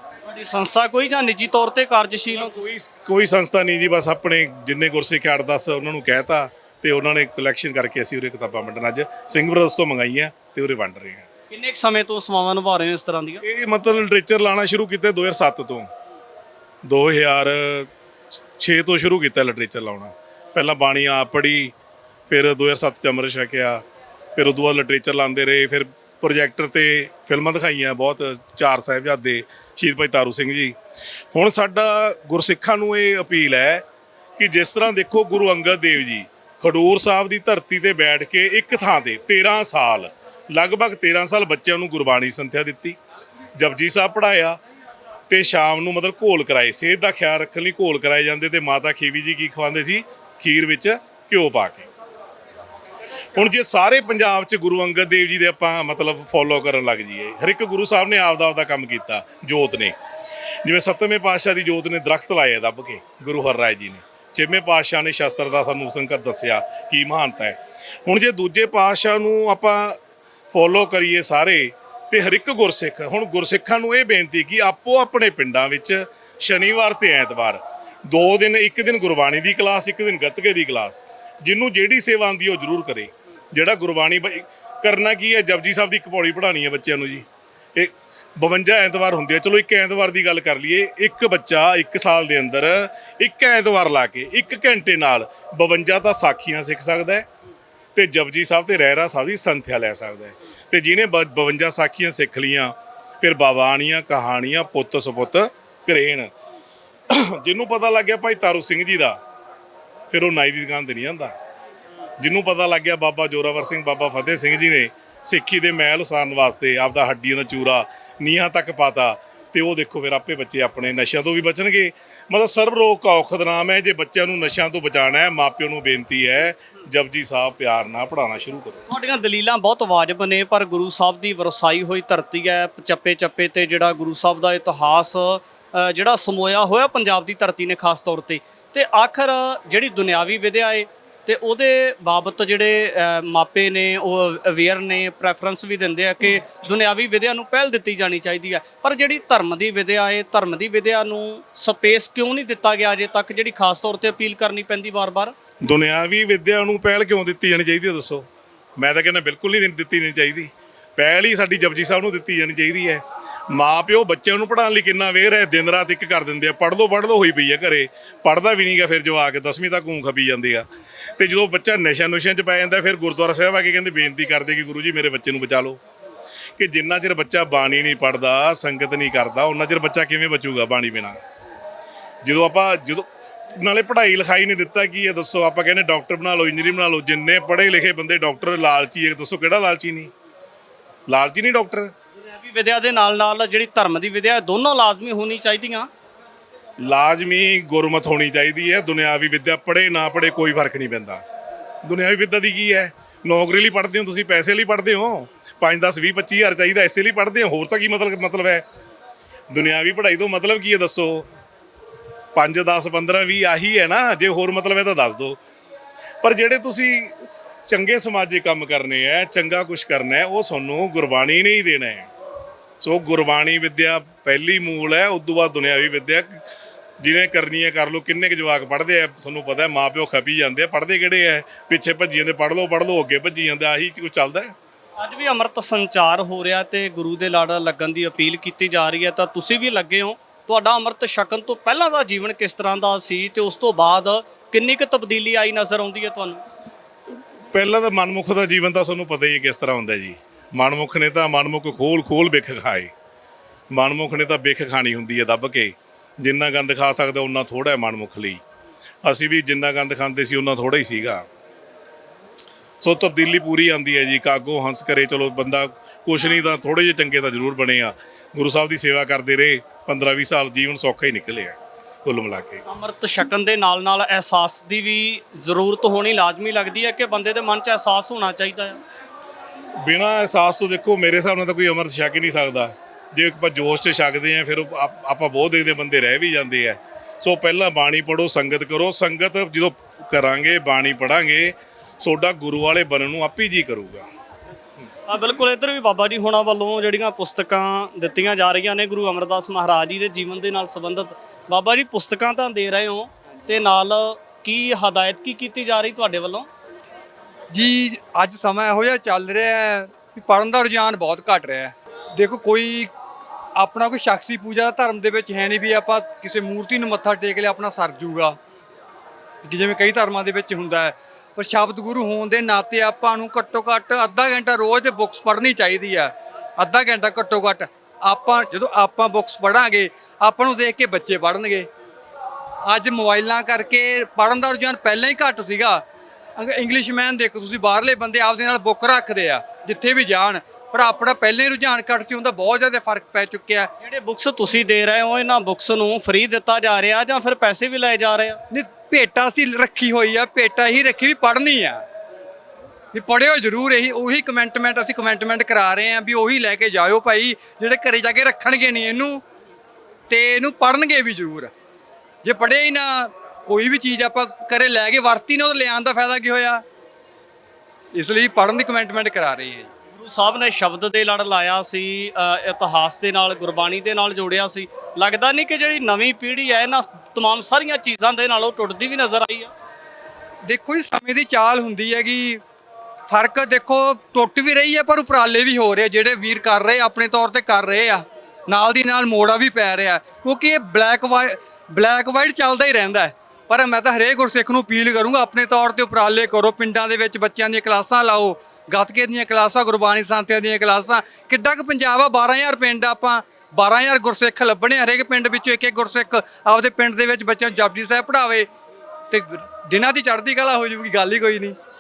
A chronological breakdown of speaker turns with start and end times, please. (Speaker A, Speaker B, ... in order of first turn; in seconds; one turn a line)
Speaker A: 0.2-2.6
Speaker B: 2.4-11.3
Speaker A: 11.5-13.4
Speaker B: 13.4-15.9
Speaker B: 16.9-17.9
Speaker B: 18.6-21.7
Speaker B: 22.3-23.8
Speaker B: 24.4-30.7
Speaker B: 31.3-33.8
Speaker B: 34.4-43.0
Speaker B: 43.6-44.6
Speaker B: 45.3-51.9
Speaker B: 53.4-60.0
Speaker B: 60.6-70.0
Speaker B: 70.5-87.2
Speaker B: 87.8-97.2
Speaker B: 98.0-106.3
Speaker B: 107.1-109.2
Speaker B: 110.1-111.3
Speaker B: 112.2-128.8
Speaker A: 128.9-155.3
Speaker B: 155.6-158.3
Speaker B: 158.8-170.7
Speaker B: 171.2-175.8
Speaker B: 176.6-181.2
Speaker B: 182.2-190.1
Speaker B: 191.1-191.9
Speaker A: 192.2-195.9
Speaker B: 196.8-201.2
Speaker B: 201.8-208.6
Speaker B: 209.5-211.3
Speaker B: 212.3-215.4
Speaker B: 216.2-222.1
Speaker B: 222.8-226.4
Speaker B: 227.0-234.5
Speaker A: 235.0-246.4
Speaker B: 247.5-252.9
Speaker B: 253.7-258.4
Speaker B: 259.0-261.2
Speaker B: 262.8-272.6
Speaker A: 272.7-278.8
Speaker B: 279.8-294.1
Speaker A: 295.1-306.5
Speaker C: 307.5-312.9
Speaker C: 313.6-318.4
Speaker C: 319.4-331.7
Speaker C: 332.6-335.8
Speaker C: 336.4-343.7
Speaker A: 343.8-348.4
Speaker C: 348.5-351.8
Speaker C: 352.9-359.2
Speaker C: 360.1-361.5
Speaker C: 362.2-366.6
Speaker C: 367.9-369.7
Speaker A: 369.9-379.5
Speaker C: 380.5-382.4
Speaker C: 383.1-408.5
Speaker C: 409.1-411.6